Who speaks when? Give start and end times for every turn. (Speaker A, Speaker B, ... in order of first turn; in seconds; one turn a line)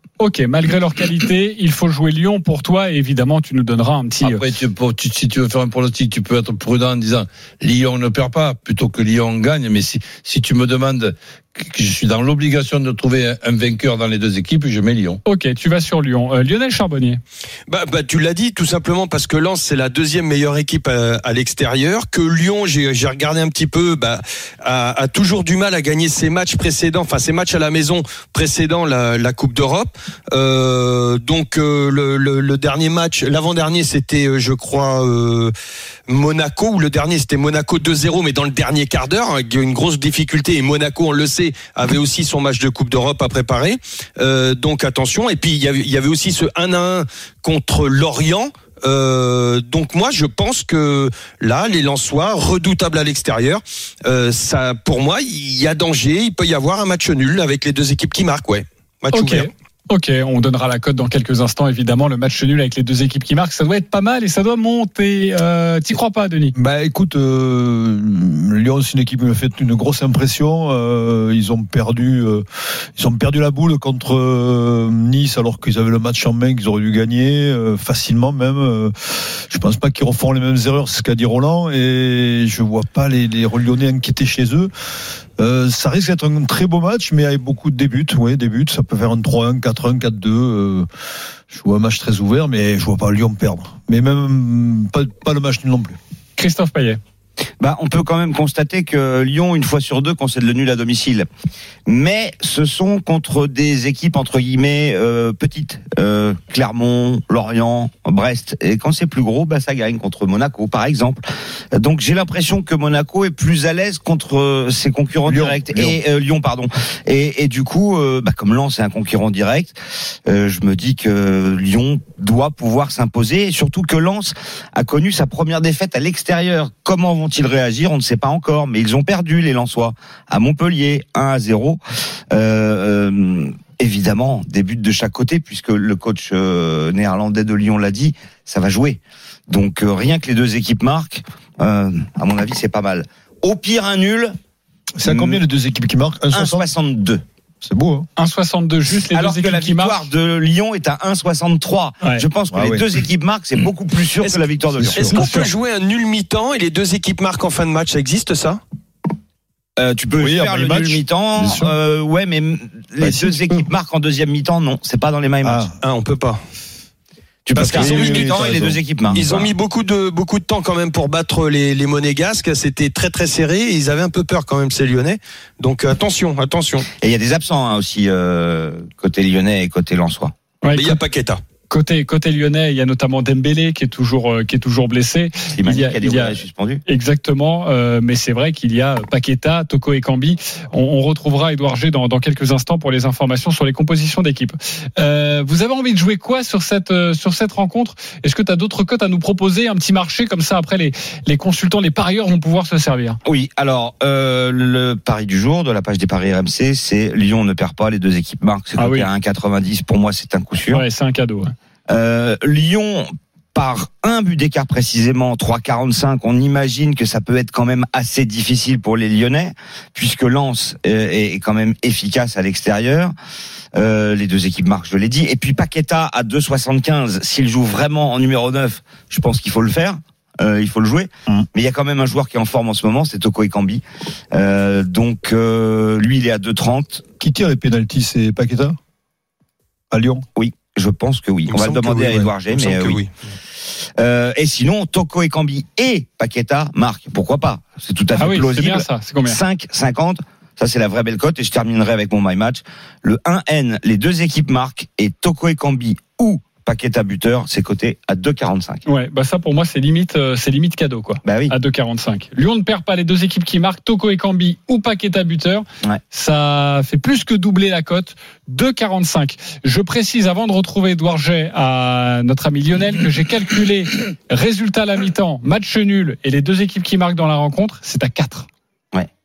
Speaker A: 0.2-4.5
Speaker B: 4.2-15.2
Speaker A: 15.2-17.2
Speaker C: 17.7-35.5
Speaker C: 36.1-59.5
Speaker A: 59.1-66.5
Speaker D: 66.5-72.4
Speaker D: 73.0-84.7
Speaker D: 85.4-90.9
Speaker D: 91.5-96.0
Speaker A: 96.4-97.0
Speaker E: 97.6-101.3
Speaker E: 101.9-111.2
Speaker E: 111.7-119.8
Speaker D: 115.3-116.0
Speaker E: 120.3-131.8
Speaker E: 132.3-144.3
Speaker D: 145.0-146.7
Speaker E: 145.1-145.4
Speaker E: 146.3-147.2
Speaker D: 147.6-148.1
Speaker A: 148.2-150.0
Speaker E: 149.1-155.2
Speaker D: 152.5-152.8
Speaker C: 154.2-158.6
Speaker D: 154.7-155.2
Speaker A: 155.1-155.5
Speaker E: 159.8-165.7
Speaker D: 160.2-161.8
Speaker D: 163.0-163.7
Speaker D: 165.4-165.8
Speaker C: 165.8-166.4
Speaker E: 167.5-169.5
Speaker C: 167.6-168.5
Speaker D: 167.6-169.3
Speaker C: 169.1-176.9
Speaker E: 177.0-180.3
Speaker A: 180.6-181.0
Speaker C: 180.8-181.4
Speaker A: 181.7-203.2
Speaker E: 185.6-186.8
Speaker E: 203.2-210.8
Speaker A: 208.8-209.1
Speaker A: 210.7-211.5
Speaker E: 211.9-223.1
Speaker E: 223.8-237.0
Speaker D: 237.2-238.8
Speaker D: 239.9-240.2
Speaker E: 240.3-243.0
Speaker C: 241.5-243.1
Speaker E: 244.0-258.8
Speaker A: 248.2-249.4
Speaker A: 258.9-278.5
Speaker E: 261.2-261.5